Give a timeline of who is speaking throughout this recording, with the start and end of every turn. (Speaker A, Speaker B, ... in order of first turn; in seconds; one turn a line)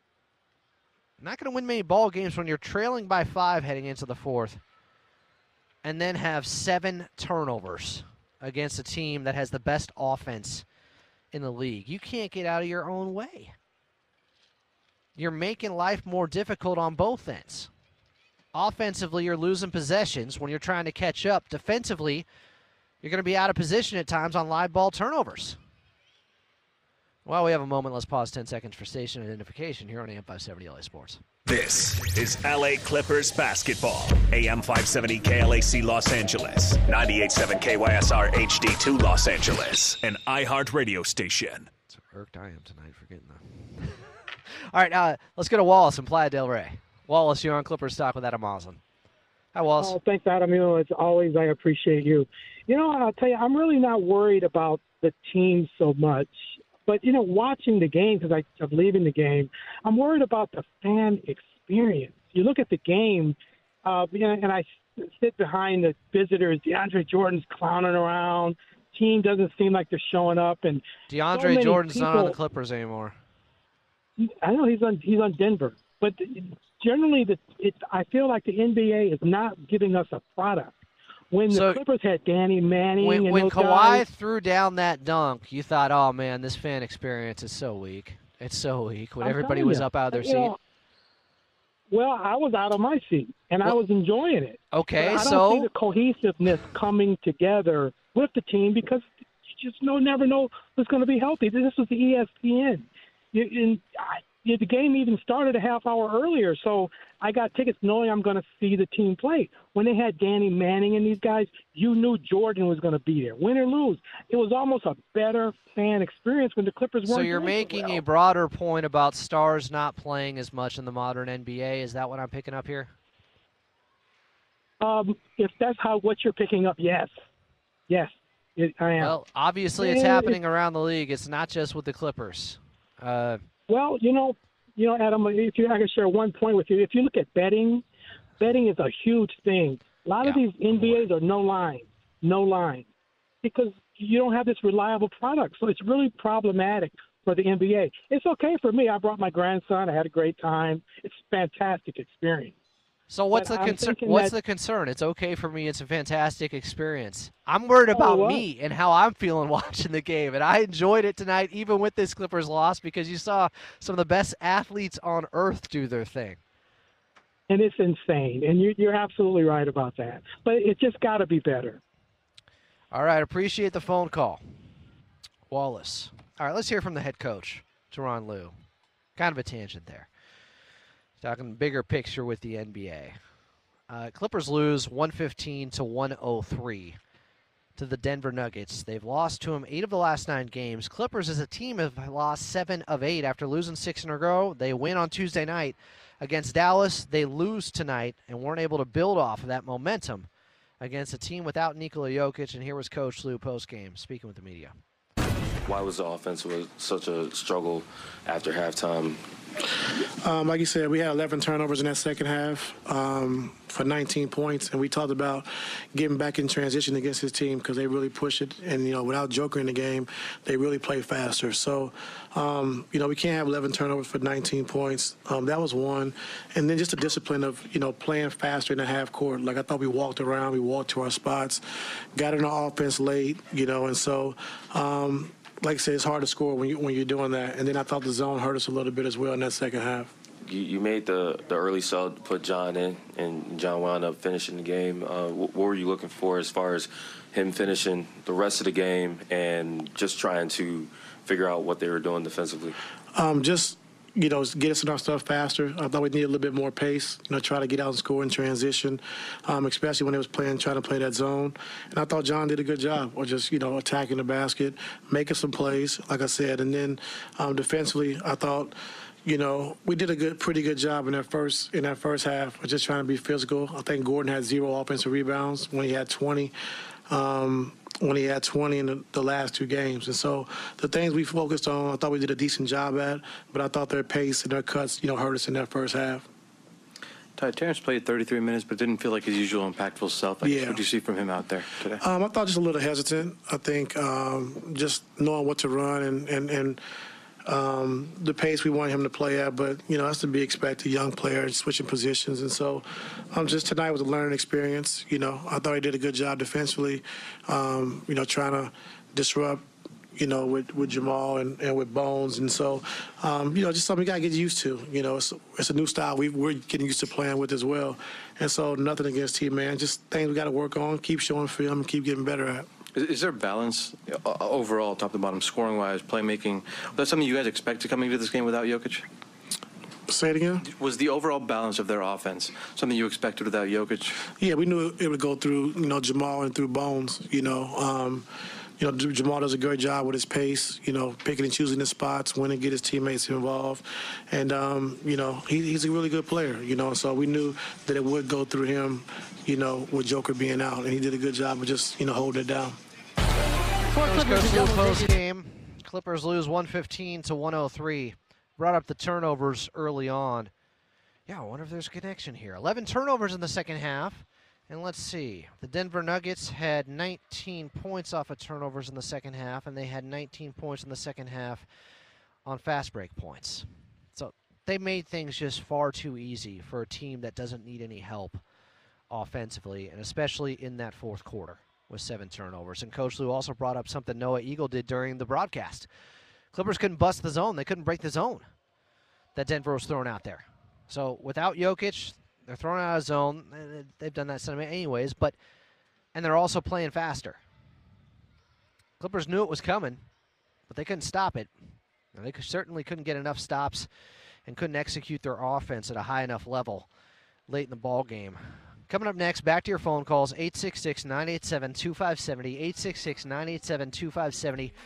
Speaker A: 1.2-4.6
Speaker A: 5.8-10.6
Speaker A: 11.3-13.5
Speaker A: 15.2-17.7
Speaker A: 18.5-22.2
Speaker A: 23.0-25.6
Speaker A: 27.2-31.2
Speaker B: 31.4-41.7
Speaker A: 41.9-43.9
Speaker A: 44.7-48.8
Speaker A: 49.5-50.0
Speaker C: 49.8-72.4
Speaker A: 71.1-73.2
Speaker C: 74.2-80.8
Speaker C: 81.3-84.0
Speaker A: 81.5-81.8
Speaker A: 83.0-90.5
Speaker C: 89.2-90.6
Speaker C: 91.9-118.0
Speaker A: 94.7-95.7
Speaker A: 117.0-122.9
Speaker C: 124.8-127.1
Speaker C: 127.9-129.2
Speaker A: 129.0-133.4
Speaker C: 129.8-130.4
Speaker C: 133.7-137.8
Speaker C: 138.4-142.9
Speaker A: 140.2-141.1
Speaker C: 143.4-152.5
Speaker A: 153.1-166.4
Speaker C: 153.3-154.3
Speaker C: 157.9-158.4
Speaker C: 167.5-171.8
Speaker A: 172.9-174.4
Speaker A: 175.5-178.5
Speaker A: 179.2-180.1
Speaker A: 181.2-183.2
Speaker A: 183.9-187.0
Speaker A: 187.8-200.3
Speaker A: 200.8-204.7
Speaker D: 205.6-209.2
Speaker E: 210.2-231.6
Speaker E: 232.1-240.1
Speaker D: 240.4-252.8
Speaker E: 253.1-276.5
Speaker E: 277.1-286.2
Speaker F: 287.4-292.0
Speaker E: 290.4-290.9
Speaker E: 291.9-296.8
Speaker E: 297.4-309.6
Speaker E: 310.1-322.7
Speaker F: 322.9-329.1
Speaker E: 330.1-330.6
Speaker F: 330.6-334.2
Speaker E: 334.4-338.3
Speaker E: 338.8-352.8
Speaker C: 353.9-355.0
Speaker A: 354.0-360.5
Speaker A: 361.3-371.6
Speaker A: 372.4-378.4
Speaker A: 379.1-385.9
Speaker A: 386.5-388.5
Speaker A: 389.4-395.4
Speaker A: 396.1-397.4
Speaker A: 399.0-400.0
Speaker A: 400.7-401.5
Speaker A: 402.1-403.9
Speaker A: 404.5-406.9
Speaker A: 407.5-414.7